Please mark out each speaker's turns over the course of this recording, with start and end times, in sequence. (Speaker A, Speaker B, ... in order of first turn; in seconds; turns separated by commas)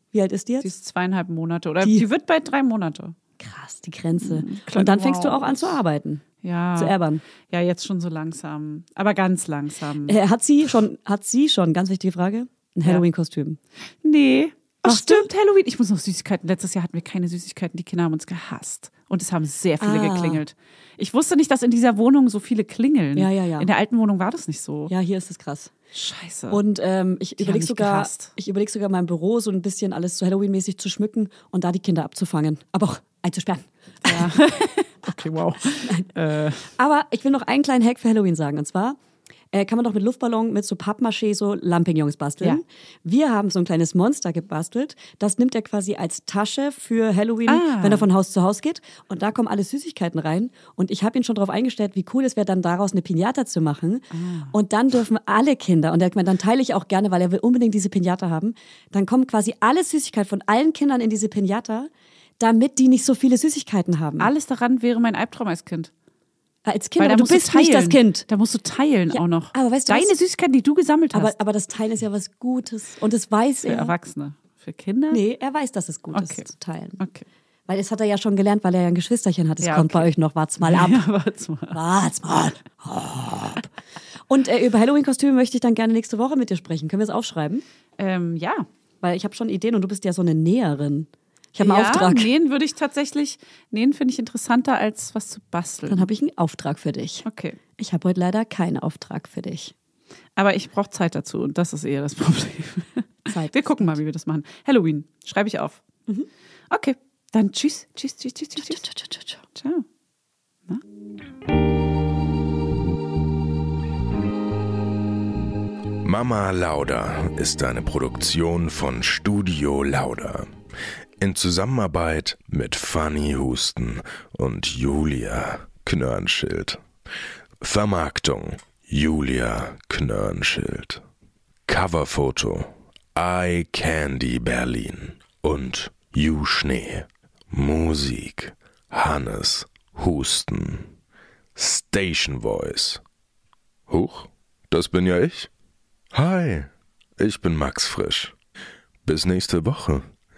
Speaker A: 0.1-0.7, Speaker B: 0.6-3.1, Speaker A: 3.4-6.2, Speaker B: 4.2-5.8, Speaker B: 6.4-6.9, Speaker A: 6.8-7.2, Speaker B: 7.5-10.2, Speaker A: 10.1-13.6, Speaker B: 14.0-24.9, Speaker A: 14.8-15.3, Speaker A: 19.8-20.4, Speaker A: 23.1-23.7, Speaker A: 24.9-25.7, Speaker B: 25.9-26.6, Speaker A: 26.5-34.4, Speaker B: 27.4-28.3, Speaker B: 34.0-36.7, Speaker A: 35.8-36.1, Speaker A: 36.8-39.0, Speaker A: 39.5-64.3, Speaker B: 47.5-48.0, Speaker B: 54.1-54.5, Speaker B: 64.2-65.9, Speaker A: 66.6-68.2, Speaker B: 67.0-71.3, Speaker A: 69.1-70.1, Speaker A: 71.1-73.9, Speaker B: 73.7-75.2, Speaker A: 75.1-77.0, Speaker B: 76.1-76.5, Speaker B: 77.0-77.2, Speaker A: 77.7-81.0, Speaker B: 79.6-80.1, Speaker B: 80.6-81.8, Speaker A: 81.7-83.7, Speaker A: 84.3-87.6, Speaker B: 88.0-88.7, Speaker A: 89.0-92.3, Speaker B: 91.6-96.1, Speaker A: 95.9-97.2, Speaker B: 97.2-97.6, Speaker A: 97.8-99.7, Speaker B: 100.4-105.8, Speaker A: 103.3-104.0, Speaker B: 106.7-108.8, Speaker A: 108.6-109.4, Speaker B: 109.5-109.8, Speaker C: 116.0-120.5, Speaker C: 121.2-126.8, Speaker C: 127.6-131.0, Speaker C: 131.7-140.9, Speaker C: 141.5-143.0, Speaker C: 143.9-145.5, Speaker C: 146.1-148.3, Speaker C: 149.0-150.1